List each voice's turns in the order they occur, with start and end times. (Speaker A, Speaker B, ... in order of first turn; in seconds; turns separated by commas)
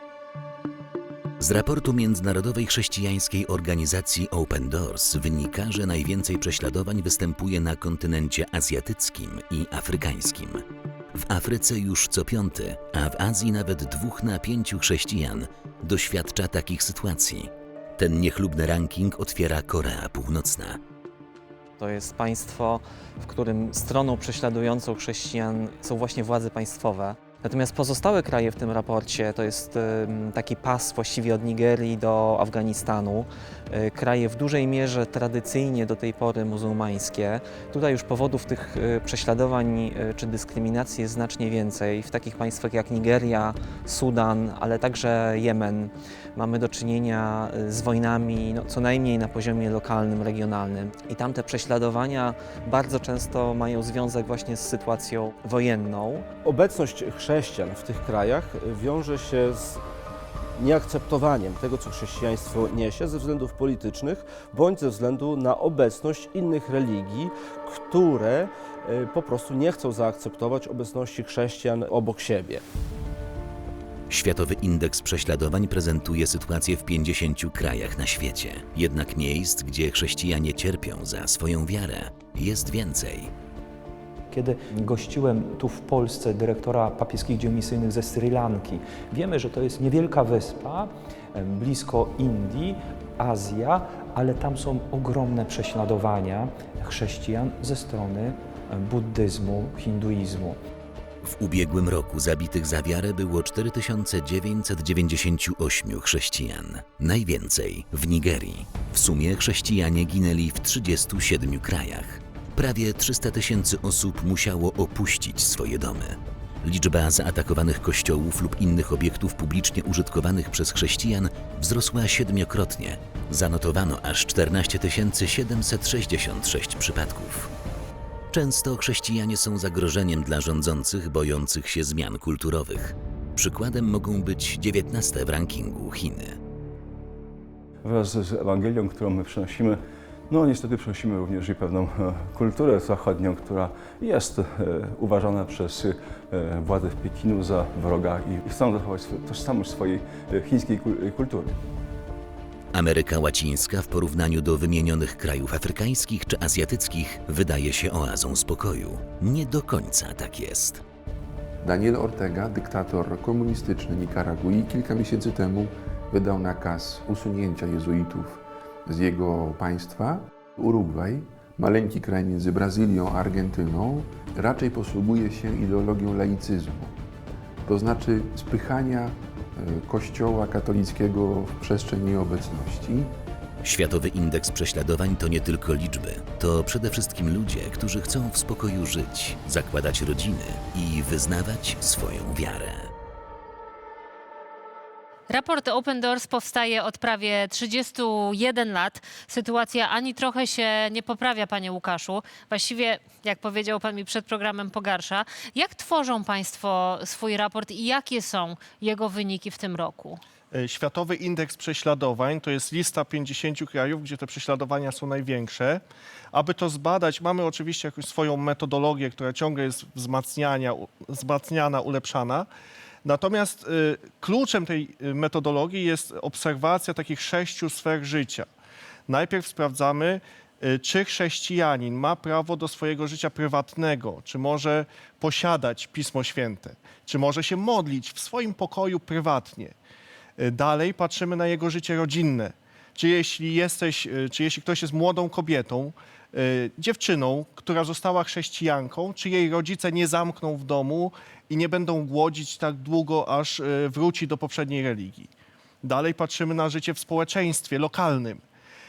Speaker A: 1.4-20.8, Speaker B: 21.8-56.2, Speaker C: 56.4-59.8, Speaker C: 60.6-72.6, Speaker A: 74.1-83.3, Speaker D: 84.3-100.6, Speaker A: 101.2-127.5, Speaker A: 128.3-136.4, Speaker E: 137.8-151.6, Speaker A: 152.7-160.8, Speaker F: 161.6-176.9, Speaker F: 177.6-183.1, Speaker A: 183.6-192.9, Speaker G: 195.3-210.2, Speaker H: 210.5-215.8, Speaker H: 216.3-222.5, Speaker H: 223.0-228.5, Speaker H: 229.1-239.7, Speaker H: 240.4-255.3, Speaker H: 255.8-258.4